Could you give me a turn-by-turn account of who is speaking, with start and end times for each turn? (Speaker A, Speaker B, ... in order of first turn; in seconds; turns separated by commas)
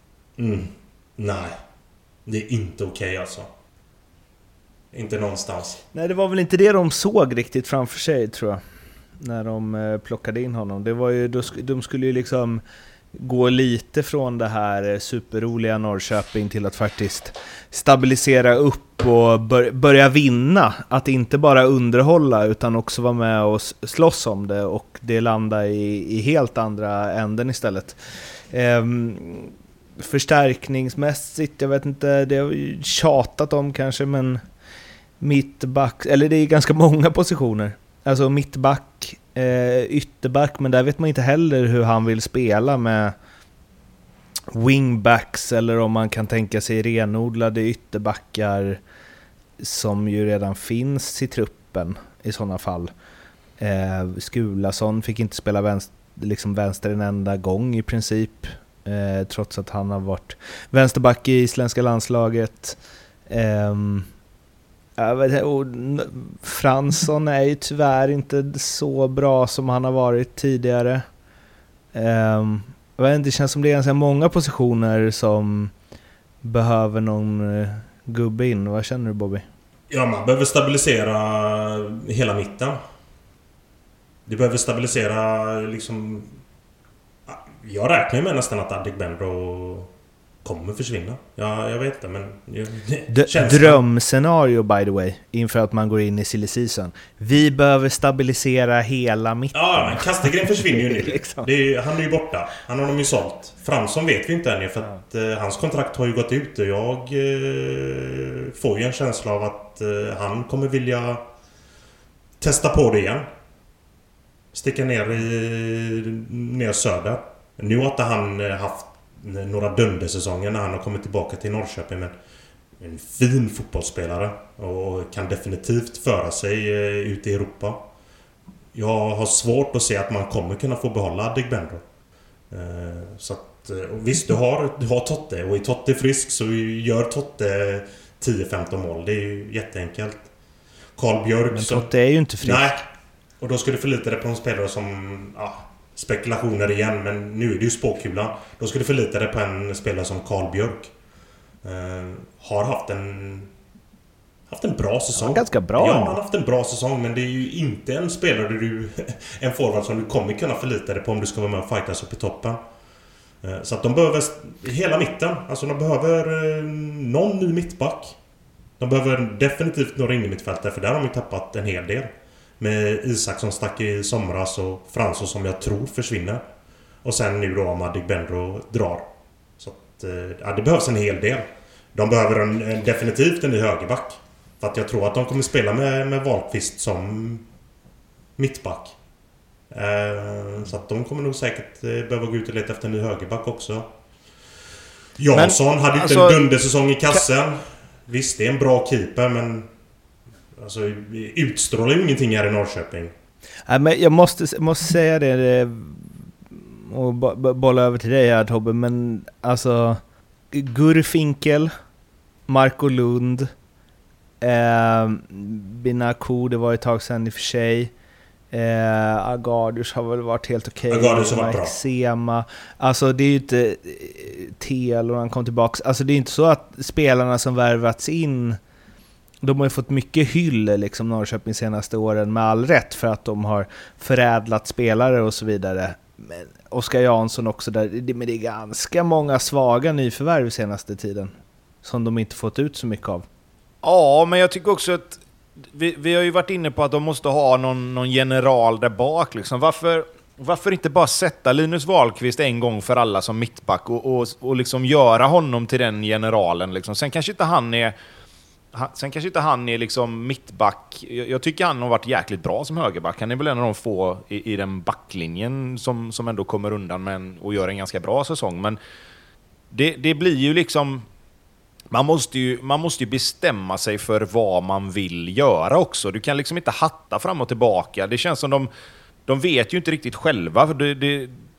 Speaker A: 0.4-1.5, Speaker A: 2.3-3.5, Speaker A: 4.9-5.8, Speaker B: 5.9-8.6, Speaker B: 9.2-12.6, Speaker B: 13.2-28.0, Speaker B: 28.5-34.4, Speaker B: 35.2-43.1, Speaker B: 44.5-48.8, Speaker B: 49.6-52.9, Speaker B: 53.6-64.1, Speaker B: 65.0-71.0, Speaker B: 71.9-75.7, Speaker B: 76.4-79.5, Speaker A: 79.9-82.8, Speaker A: 84.3-86.3, Speaker A: 87.3-89.9, Speaker A: 90.4-93.8, Speaker B: 93.1-101.5, Speaker A: 99.5-111.2, Speaker A: 112.4-113.3, Speaker A: 114.5-122.1, Speaker A: 122.8-127.9, Speaker A: 128.8-131.8, Speaker A: 132.5-140.3, Speaker A: 141.0-141.9, Speaker B: 141.5-142.8, Speaker A: 142.4-142.8, Speaker A: 143.4-150.9, Speaker A: 151.6-153.5, Speaker A: 154.5-162.6, Speaker B: 155.2-156.2, Speaker A: 163.4-168.1, Speaker A: 168.8-176.4, Speaker A: 177.0-179.1, Speaker A: 179.6-187.4, Speaker A: 188.4-188.9, Speaker A: 189.7-193.9, Speaker A: 195.2-199.7, Speaker C: 195.3-196.4, Speaker A: 200.6-203.1, Speaker B: 203.7-211.7, Speaker B: 212.5-213.5, Speaker B: 214.4-217.9, Speaker B: 218.5-228.6, Speaker A: 220.9-221.7, Speaker B: 229.4-243.3, Speaker C: 243.8-245.2, Speaker C: 245.7-257.9, Speaker C: 258.7-268.8, Speaker C: 269.7-271.1, Speaker C: 271.9-278.7, Speaker C: 279.3-281.3